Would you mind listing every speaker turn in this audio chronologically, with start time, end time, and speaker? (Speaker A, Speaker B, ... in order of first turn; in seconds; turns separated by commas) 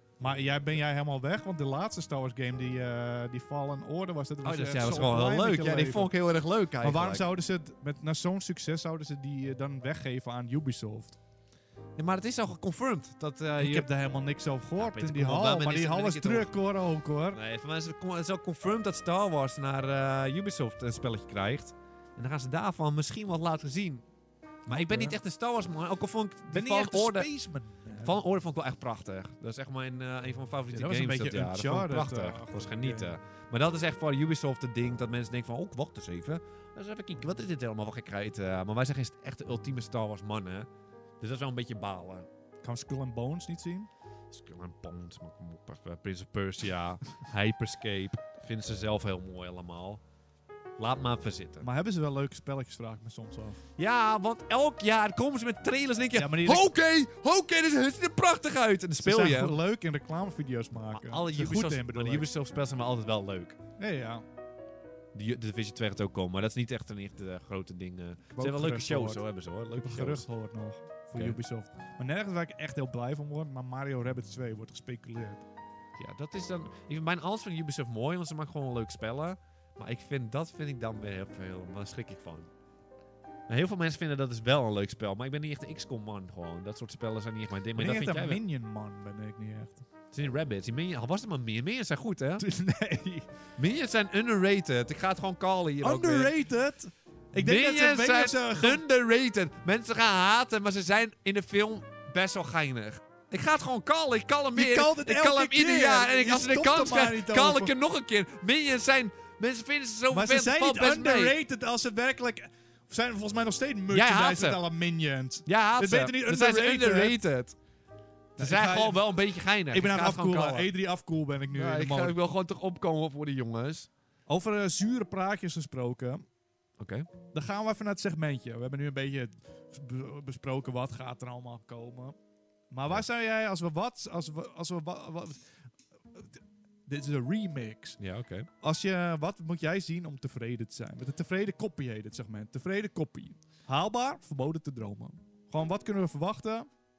Speaker A: 0.2-6.1, Speaker B: 4.4-7.2, Speaker A: 6.8-11.2, Speaker B: 12.0-13.9, Speaker A: 13.6-17.4, Speaker B: 14.8-16.5, Speaker B: 17.3-24.1, Speaker B: 24.7-27.3, Speaker A: 24.7-25.2, Speaker A: 26.5-28.2, Speaker B: 28.0-40.7, Speaker A: 30.7-33.1, Speaker B: 41.2-42.3, Speaker A: 42.6-43.9, Speaker B: 44.3-50.0, Speaker B: 50.8-51.7, Speaker A: 51.6-53.6, Speaker B: 53.8-59.6, Speaker A: 56.1-56.7, Speaker A: 59.0-62.3, Speaker B: 60.8-63.6, Speaker A: 63.8-64.2, Speaker B: 65.1-70.3, Speaker A: 68.3-69.2, Speaker A: 69.8-75.5, Speaker B: 76.0-82.5, Speaker B: 83.5-88.4, Speaker A: 87.8-89.8, Speaker B: 90.1-92.5, Speaker A: 92.4-93.3, Speaker B: 93.6-96.3, Speaker A: 95.8-98.8, Speaker B: 97.4-111.3, Speaker A: 104.5-107.7, Speaker A: 110.1-117.2, Speaker B: 113.9-114.6, Speaker B: 115.5-117.6, Speaker A: 118.4-119.1, Speaker B: 118.4-120.7, Speaker A: 119.7-122.2, Speaker B: 121.5-123.9, Speaker A: 124.3-126.2, Speaker B: 126.8-127.1, Speaker A: 127.3-132.2, Speaker A: 132.7-135.4, Speaker A: 136.1-138.0, Speaker B: 138.0-138.5, Speaker A: 138.6-146.7